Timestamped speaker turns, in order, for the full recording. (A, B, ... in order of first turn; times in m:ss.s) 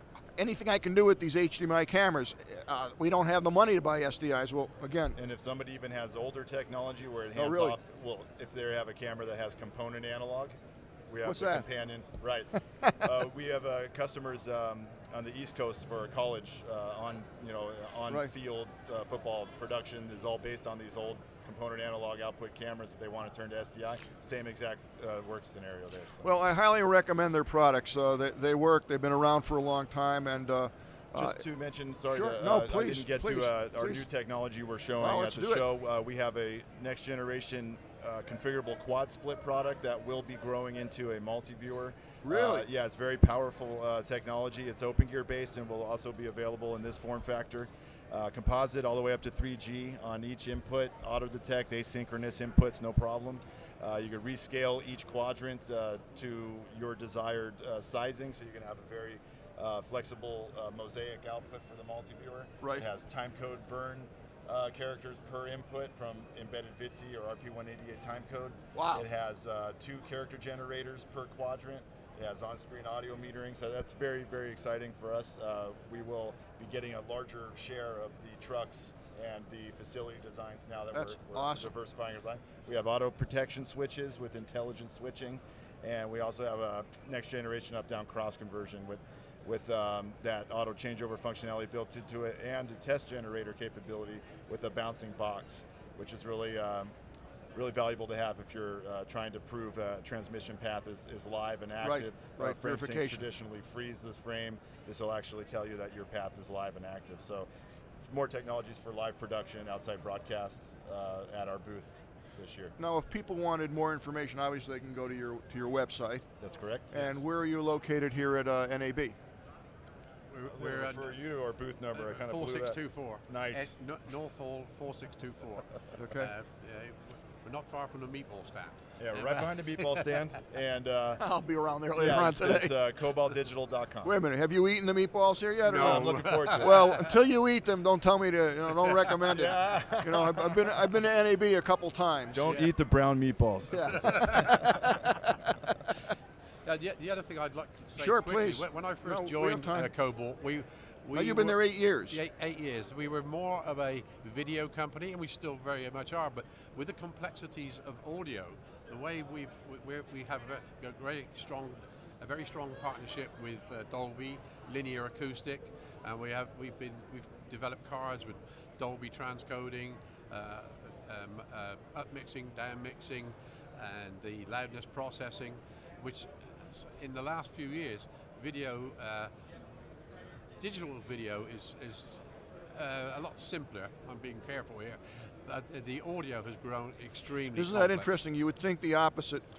0:00.4-0:05.2 A
0:05.2-0:10.6 B
0:07.3-0:07.8 A
0:11.1-0:26.3 B
0:11.2-0:11.6 A
0:12.6-0:13.0 A
0:26.2-0:31.4 A
0:31.1-1:36.9 B
0:32.1-0:34.0 A
0:35.0-0:35.6 A
0:42.2-0:42.6 A
1:08.7-1:09.0 A
1:20.9-1:21.7 A
1:37.5-1:47.5 B
1:41.8-1:43.2 A
1:48.0-1:52.7 B
1:52.8-1:56.2 A
1:56.4-1:57.1 B
1:56.9-1:59.2 A
2:00.3-2:01.1 C
2:00.4-2:03.8 B
2:01.9-2:10.1 C
2:06.0-2:06.3 A
2:09.0-2:11.2 B
2:11.2-2:12.8 A
2:11.9-2:14.1 B
2:14.0-2:22.5 A
2:15.6-2:17.1 C
2:15.7-2:17.0 B
2:18.8-2:19.1 C
2:19.3-2:20.8 B
2:22.3-2:25.0 B
2:22.4-2:22.7 C
2:23.7-2:25.7 A
2:24.0-2:24.5 C
2:26.6-2:59.3 C
2:28.0-2:29.9 A
2:31.1-2:32.2 A
3:00.6-3:08.1 C
3:07.5-3:09.4 A